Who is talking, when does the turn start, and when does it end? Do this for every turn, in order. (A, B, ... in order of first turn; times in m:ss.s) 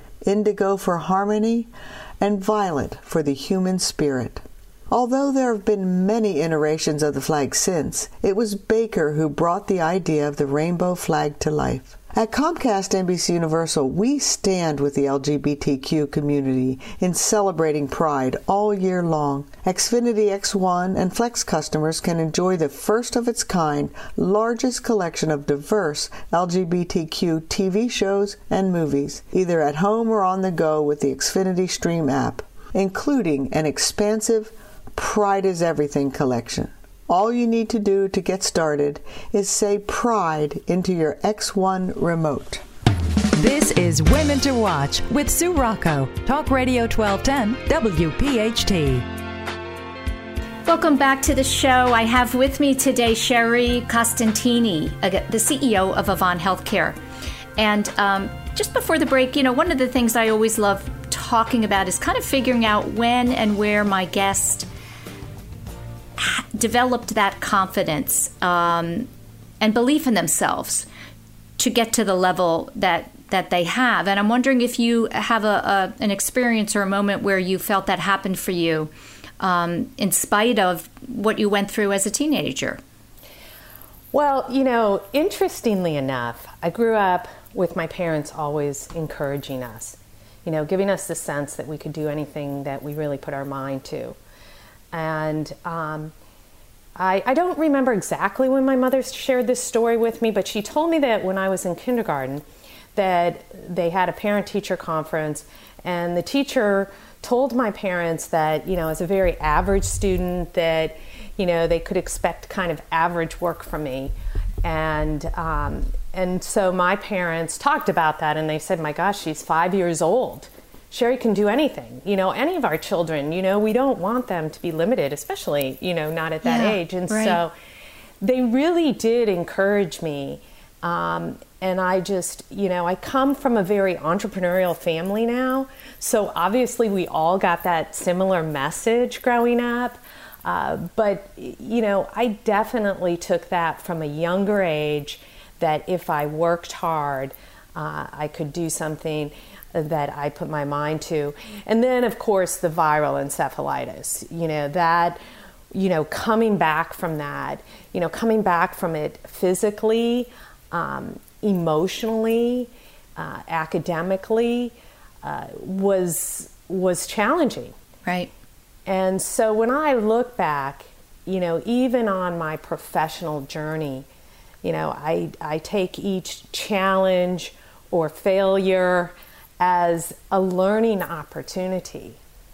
0:00.2-0:42.6 A
0:43.3-0:49.0 B
0:50.6-0:57.0 C
0:57.6-1:04.7 C
1:06.2-1:09.1 C
1:09.6-1:10.8 C
1:11.6-1:22.8 C
1:24.1-1:34.2 D
1:34.9-1:36.1 D
1:37.0-1:42.4 D
1:43.0-2:07.5 D
2:06.4-2:07.4 C
2:08.2-2:35.2 D
2:35.7-2:47.7 D
2:48.0-2:48.3 C
2:48.9-2:54.0 D
2:54.6-3:02.2 D